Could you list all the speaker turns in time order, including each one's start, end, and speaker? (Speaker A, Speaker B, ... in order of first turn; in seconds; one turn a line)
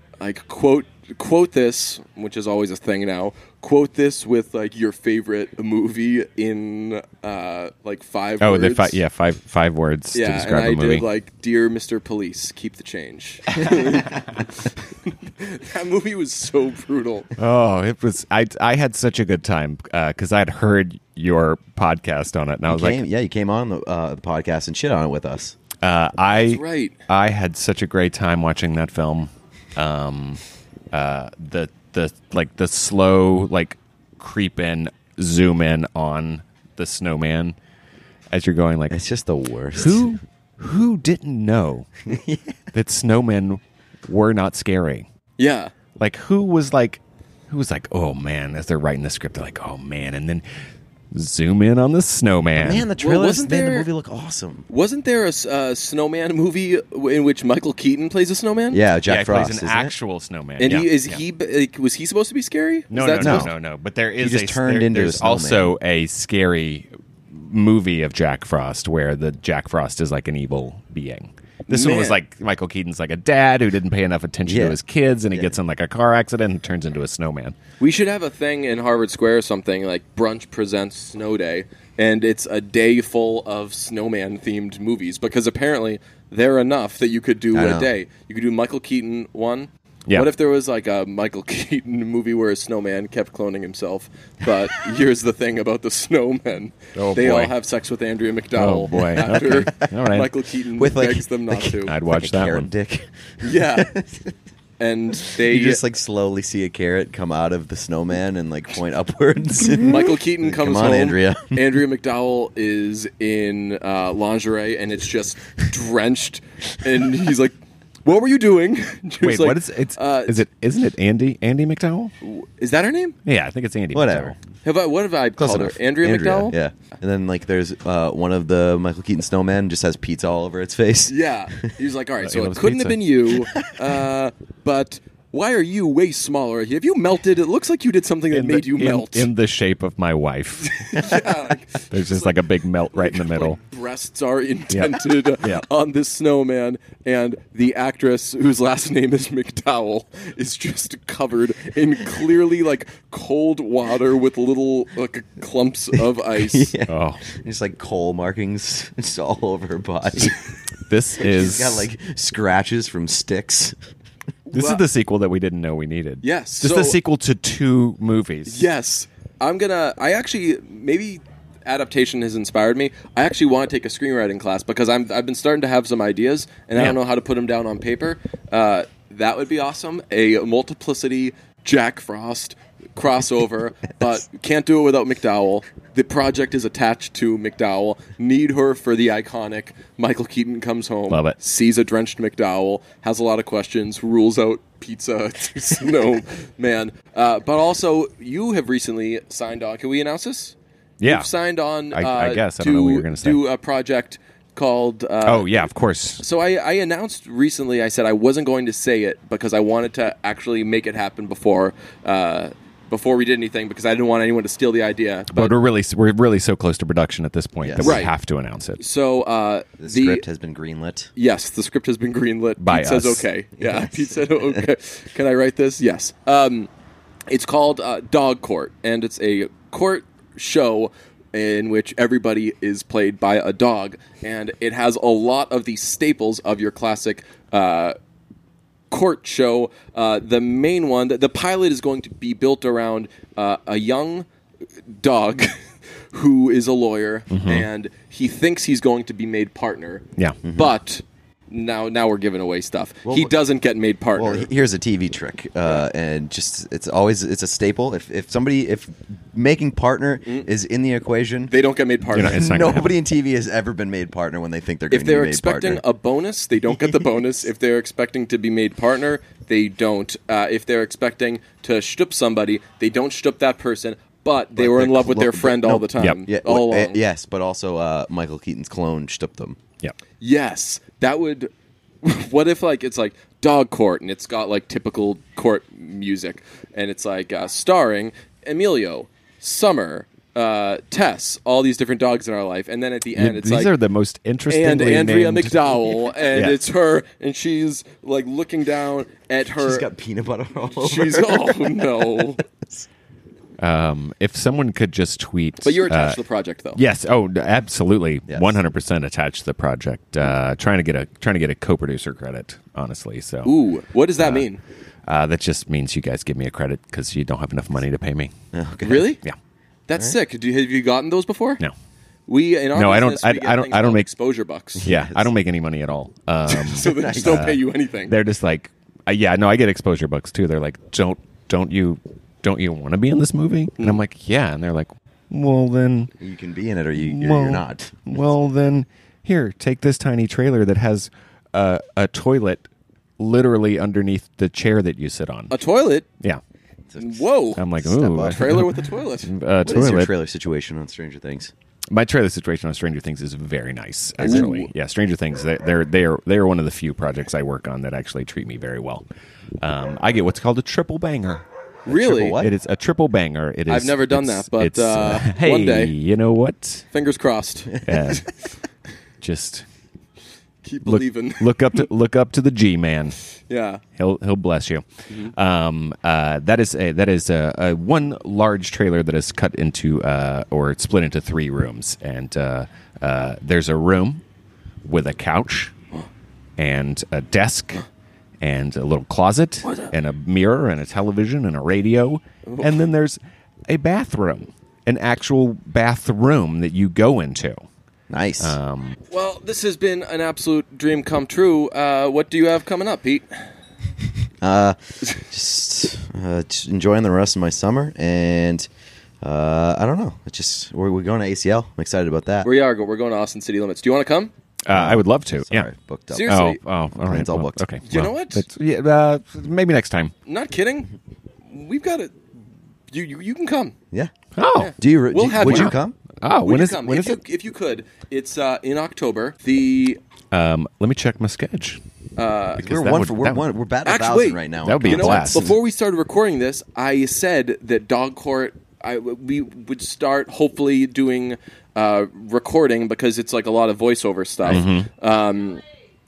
Speaker A: 0.2-9.0
Speaker B: 8.4-11.1
Speaker A: 10.1-14.3
Speaker B: 13.6-14.0
Speaker A: 15.1-17.3
Speaker B: 17.4-23.0
Speaker C: 22.7-25.6
Speaker B: 25.8-37.5
Speaker A: 26.3-27.0
Speaker B: 38.3-39.0
Speaker C: 38.9-40.2
Speaker B: 39.8-42.0
Speaker C: 42.1-42.5
Speaker B: 42.7-45.1
Speaker A: 45.4-45.7
Speaker B: 46.0-50.5
Speaker B: 51.1-52.9
Speaker C: 52.6-54.7
Speaker A: 53.0-53.9
Speaker A: 54.7-58.8
Speaker C: 58.7-59.9
Speaker B: 59.0-61.2
Speaker A: 60.6-63.5
Speaker B: 62.9-77.5
Speaker C: 63.2-63.5
Speaker C: 64.2-65.7
Speaker A: 71.7-72.2
Speaker C: 74.5-74.8
Speaker A: 77.8-101.9
Speaker C: 87.5-87.9
Speaker B: 97.0-97.5
Speaker B: 98.6-100.3
Speaker C: 100.8-104.3
Speaker B: 101.8-102.7
Speaker A: 103.4-103.9
Speaker A: 104.8-105.8
Speaker C: 105.3-111.6
Speaker A: 109.8-120.4
Speaker B: 119.2-122.1
Speaker A: 122.2-123.2
Speaker B: 123.2-124.4
Speaker C: 123.9-124.4
Speaker A: 124.6-126.5
Speaker C: 125.4-131.2
Speaker A: 131.1-139.3
Speaker B: 132.2-133.1
Speaker B: 138.3-141.2
Speaker A: 140.6-142.4
Speaker B: 141.9-143.6
Speaker A: 142.9-156.7
Speaker B: 144.7-145.7
Speaker C: 156.2-160.4
Speaker B: 156.9-157.2
Speaker B: 160.9-161.9
Speaker C: 161.2-163.8
Speaker A: 164.5-164.8
Speaker B: 164.5-168.7
Speaker A: 166.2-167.0
Speaker A: 168.5-205.5
Speaker B: 191.1-191.4
Speaker B: 201.0-201.3
Speaker B: 201.9-203.4
Speaker B: 205.3-206.2
Speaker A: 206.2-215.6
Speaker B: 215.3-218.8
Speaker C: 217.6-218.0
Speaker A: 217.8-218.1
Speaker A: 218.8-220.2
Speaker C: 219.8-221.1
Speaker A: 221.2-226.7
Speaker B: 222.6-223.3
Speaker C: 223.6-224.6
Speaker A: 227.3-238.0
Speaker A: 238.9-244.3
Speaker A: 244.9-254.5
Speaker B: 247.3-247.7
Speaker C: 250.4-250.7
Speaker C: 253.1-253.3
Speaker C: 254.2-261.5
Speaker A: 261.5-262.4
Speaker B: 262.1-262.9
Speaker C: 262.2-265.8
Speaker A: 264.9-277.0
Speaker C: 274.6-279.6
Speaker A: 280.2-281.5
Speaker A: 282.0-293.7
Speaker B: 293.2-296.6
Speaker A: 294.5-299.9
Speaker C: 299.5-302.9
Speaker A: 300.8-302.4
Speaker B: 303.6-306.2
Speaker A: 305.6-306.8
Speaker B: 306.8-313.6
Speaker C: 308.3-308.6
Speaker A: 313.4-314.6
Speaker B: 314.2-314.5
Speaker B: 315.1-318.3
Speaker C: 318.5-319.1
Speaker A: 318.8-319.2
Speaker A: 319.9-321.6
Speaker A: 322.3-324.9
Speaker B: 322.8-324.1
Speaker C: 324.8-325.3
Speaker B: 324.8-336.1
Speaker A: 326.5-328.1
Speaker C: 326.8-327.6
Speaker C: 336.2-338.2
Speaker B: 337.0-342.6
Speaker B: 343.2-345.5
Speaker A: 345.5-346.1
Speaker C: 346.9-347.3
Speaker A: 347.0-347.7
Speaker B: 347.6-348.8
Speaker C: 347.8-348.6
Speaker A: 348.2-349.3
Speaker B: 349.3-350.1
Speaker C: 349.6-351.5
Speaker B: 351.9-359.0
Speaker C: 354.2-354.5
Speaker A: 354.2-354.7
Speaker B: 359.6-361.4
Speaker C: 361.9-362.5
Speaker A: 361.9-362.4
Speaker B: 362.4-366.9
Speaker A: 363.7-365.9
Speaker A: 366.9-368.3
Speaker B: 367.8-368.3
Speaker B: 369.2-369.6
Speaker A: 370.6-371.9
Speaker B: 370.9-373.2
Speaker A: 373.5-373.8
Speaker B: 374.0-384.2
Speaker B: 384.9-385.7
Speaker B: 386.6-387.9
Speaker B: 388.4-397.6
Speaker A: 392.5-392.8
Speaker C: 398.1-398.6
Speaker B: 398.4-399.0
Speaker A: 399.1-403.4
Speaker C: 404.4-408.7
Speaker C: 409.2-412.5
Speaker A: 412.4-414.3
Speaker B: 414.6-415.7
Speaker C: 414.7-416.4
Speaker A: 416.1-416.6
Speaker B: 416.3-420.1
Speaker C: 416.9-417.6
Speaker A: 417.8-418.4
Speaker A: 420.2-420.9
Speaker A: 421.5-422.2
Speaker A: 422.9-423.8
Speaker B: 424.4-424.7
Speaker A: 424.6-425.8
Speaker C: 424.7-426.0
Speaker B: 425.4-427.2
Speaker A: 426.4-430.0
Speaker B: 430.3-431.8
Speaker A: 432.2-432.6
Speaker B: 432.6-433.4
Speaker C: 432.6-435.5
Speaker A: 433.9-445.6
Speaker B: 434.6-435.5
Speaker B: 444.4-444.9